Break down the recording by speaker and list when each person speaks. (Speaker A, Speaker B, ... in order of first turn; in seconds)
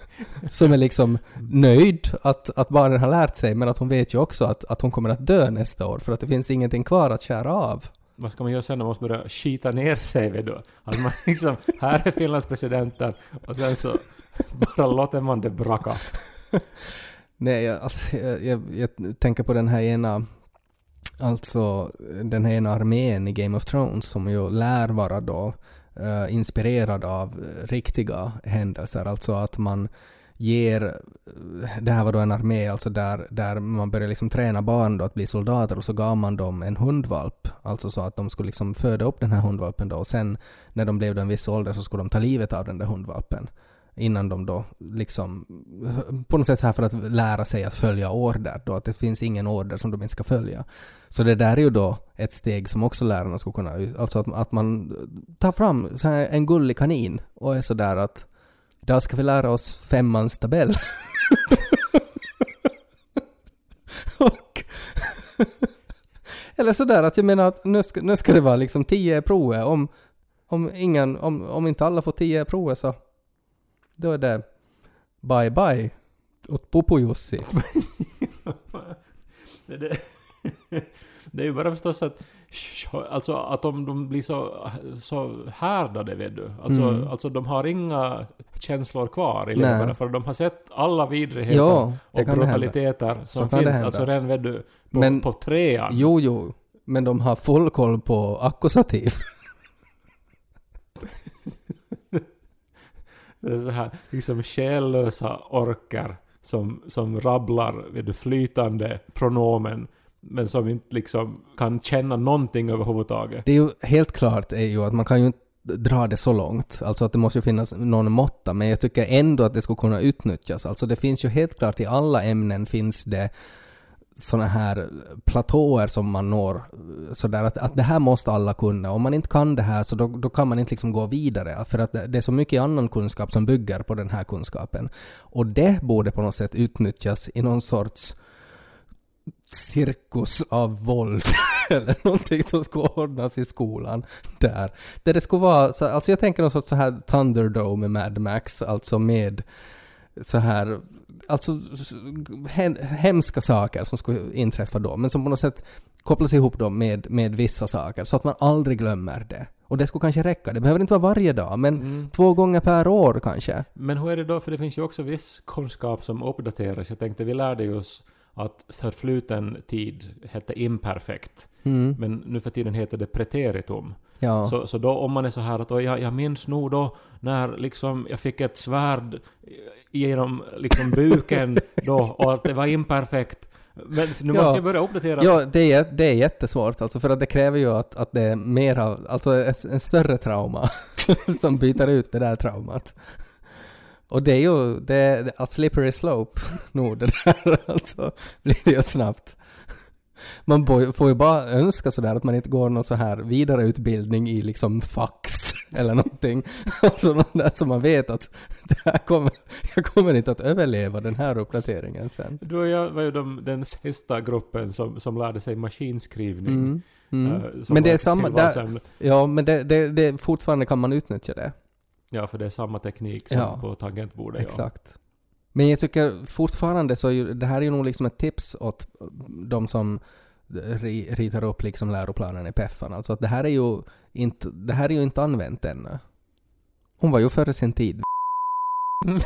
Speaker A: 0.3-7.9, 17.4-20.2, 21.2-58.3, 58.8-62.5, 63.9-65.7, 66.5-69.9, 70.5-73.0, 74.0-74.5, 75.2-77.5, 86.7-87.1, 89.5-89.9, 91.5-94.1, 94.9-95.2, 95.9-99.3, 113.4-123.3, 124.2-138.2, 139.5-149.4, 150.2-163.7, 171.6-172.0, 174.2-174.5, 184.3-184.6, 185.2-193.2, 194.1-199.4, 200.4-212.4, 216.5-221.5, 223.3-223.6, 224.3-225.0, 225.5-236.0, 237.0-238.1
Speaker B: 8.2-16.1, 77.6-96.1, 103.4-113.5, 161.8-162.1, 163.8-185.4, 212.4-218.8, 222.1-224.7